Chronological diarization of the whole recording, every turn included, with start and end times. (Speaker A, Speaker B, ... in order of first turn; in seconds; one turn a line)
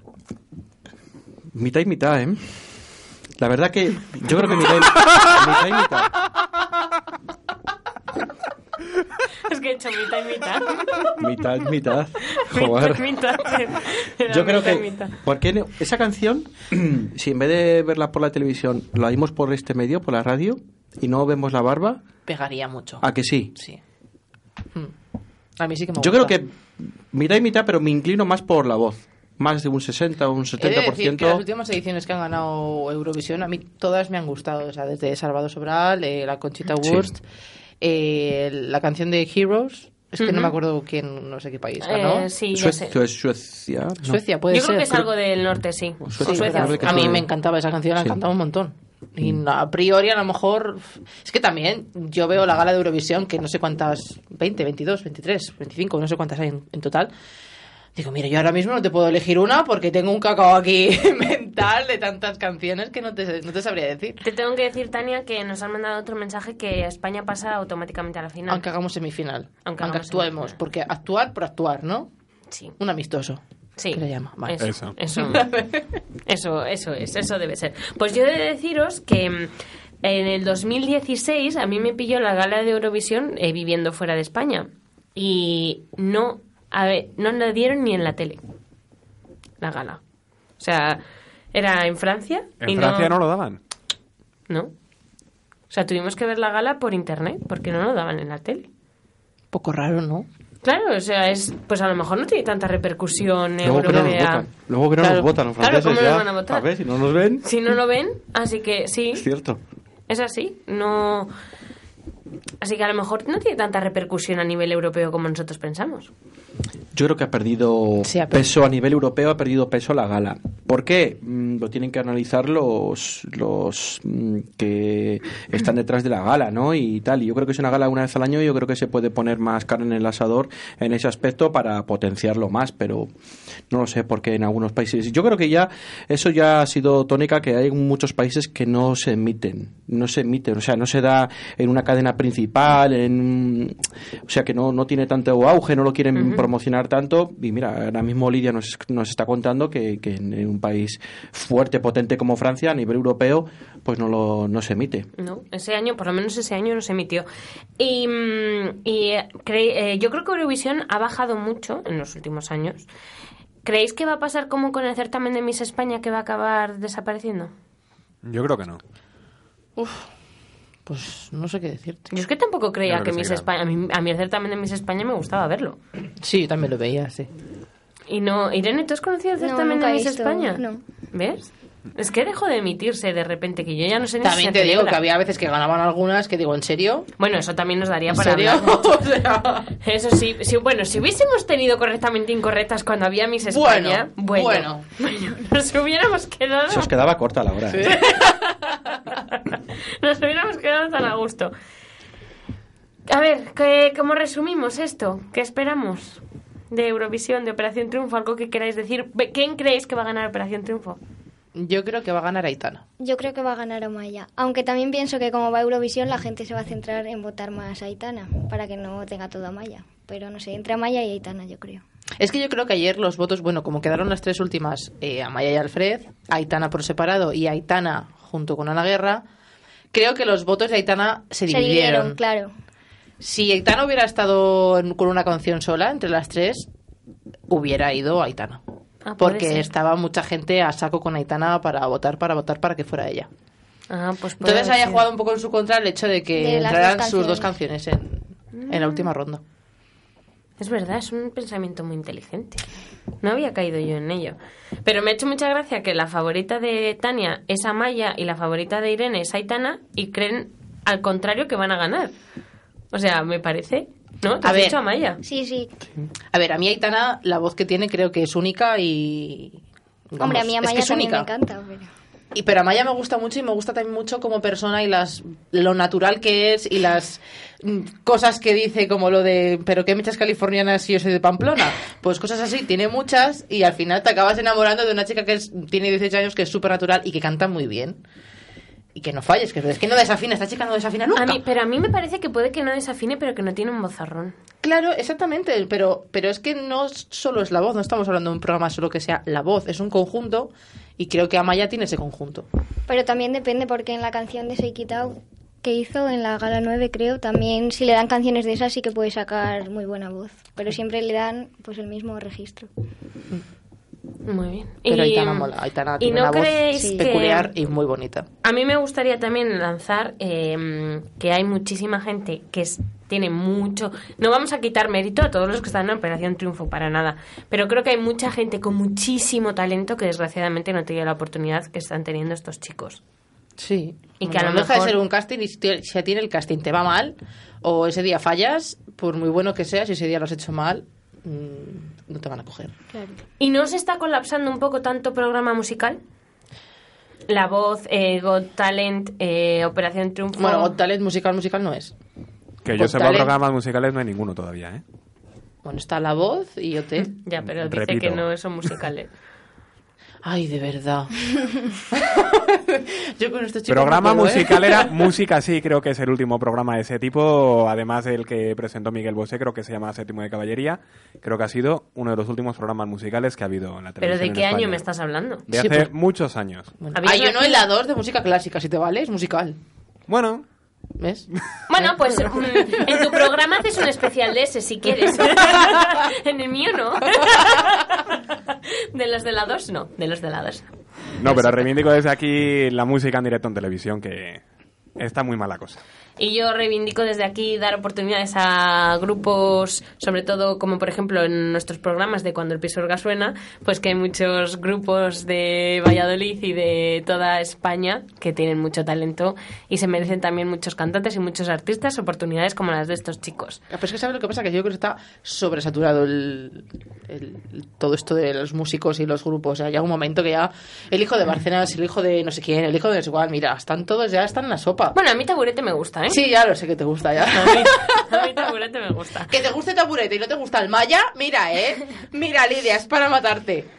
Speaker A: 1.5-2.6
Speaker A: 3.4-6.1
Speaker B: 9.5-11.1
Speaker A: 11.2-13.1
Speaker B: 12.4-15.2
Speaker A: 14.3-22.1
Speaker C: 22.3-23.8
Speaker A: 23.0-23.5
Speaker C: 25.6-26.4
Speaker A: 26.0-31.4
Speaker C: 30.6-37.2
Speaker A: 36.8-37.1
Speaker C: 37.8-42.3
Speaker B: 40.2-40.6
Speaker B: 41.8-43.0
Speaker A: 42.5-44.2
Speaker C: 44.0-45.1
Speaker B: 44.5-47.2
Speaker A: 46.0-47.3
Speaker C: 46.2-57.1
Speaker C: 58.0-64.2
Speaker B: 64.2-68.7
Speaker C: 68.5-72.1
Speaker B: 69.7-70.6
Speaker C: 72.8-73.4
Speaker B: 73.8-75.5
Speaker C: 73.9-76.0
Speaker D: 74.6-75.0
Speaker B: 76.3-88.4
Speaker B: 89.6-90.0
Speaker B: 90.6-91.0
Speaker B: 91.5-93.2
Speaker D: 92.6-93.6
Speaker B: 95.7-98.7
Speaker C: 99.5-100.3
Speaker B: 100.6-104.5
Speaker A: 103.6-107.5
Speaker C: 105.0-105.3
Speaker B: 105.6-106.7
Speaker B: 107.4-109.2
Speaker A: 109.1-109.6
Speaker B: 110.1-111.3
Speaker B: 112.6-116.1
Speaker A: 116.9-133.1
Speaker C: 118.0-118.5
Speaker A: 133.7-155.1
Speaker B: 146.2-146.5
Speaker B: 155.2-157.2
Speaker B: 157.8-162.9
Speaker B: 163.7-167.5
Speaker D: 168.2-168.8
Speaker C: 169.8-170.1
Speaker C: 170.9-172.1
Speaker B: 172.1-175.8
Speaker D: 172.9-173.4
Speaker C: 176.2-177.3
Speaker B: 178.1-185.0
Speaker E: 179.4-180.8
Speaker C: 184.2-187.1
Speaker B: 187.2-188.9
Speaker C: 188.1-189.7
Speaker B: 189.8-196.9
Speaker C: 193.4-194.9
Speaker A: 196.7-198.0
Speaker C: 197.7-198.6
Speaker B: 197.8-201.5
Speaker B: 203.1-211.0
Speaker C: 211.6-212.8
Speaker E: 213.0-221.8
Speaker C: 222.2-229.2
Speaker C: 229.9-232.2
Speaker E: 231.5-232.5
Speaker C: 233.2-236.7
Speaker C: 237.5-238.6
Speaker B: 239.1-239.7
Speaker C: 239.2-243.3
Speaker B: 243.9-245.1
Speaker C: 244.4-249.4
Speaker E: 246.4-247.5
Speaker B: 248.6-249.1
Speaker B: 250.6-252.6
Speaker B: 253.2-262.1
Speaker B: 262.9-265.2
Speaker C: 264.4-264.8
Speaker E: 265.2-265.7
Speaker C: 266.3-271.3
Speaker E: 270.2-271.9
Speaker C: 272.3-288.0
Speaker C: 288.9-291.4
Speaker B: 291.2-294.4
Speaker C: 294.6-302.5
Speaker E: 302.9-312.7
Speaker B: 314.3-315.5
Speaker C: 314.9-318.3
Speaker B: 316.0-317.5
Speaker E: 316.8-317.1
Speaker B: 318.4-333.0
Speaker C: 333.6-342.8
Speaker B: 334.2-334.9
Speaker E: 342.9-343.2
Speaker B: 343.4-346.0
Speaker B: 347.3-350.8
Speaker C: 350.4-351.9
Speaker D: 352.6-354.8
Speaker C: 352.7-353.3
Speaker C: 355.6-357.1
Speaker B: 357.2-359.1
Speaker D: 357.4-358.3
Speaker C: 360.2-365.1
Speaker D: 363.7-374.8
Speaker B: 374.0-375.5
Speaker D: 375.5-376.7
Speaker C: 376.8-379.6
Speaker B: 376.9-377.6
Speaker D: 380.1-380.4
Speaker C: 381.0-381.3
Speaker B: 381.7-390.7
Speaker C: 381.8-382.8
Speaker D: 391.2-394.4
Speaker B: 391.3-391.6
Speaker D: 395.0-395.8
Speaker B: 396.2-413.6
Speaker C: 413.7-425.0
Speaker B: 424.9-426.2
Speaker C: 426.1-428.5
Speaker B: 427.3-429.3
Speaker C: 429.3-433.7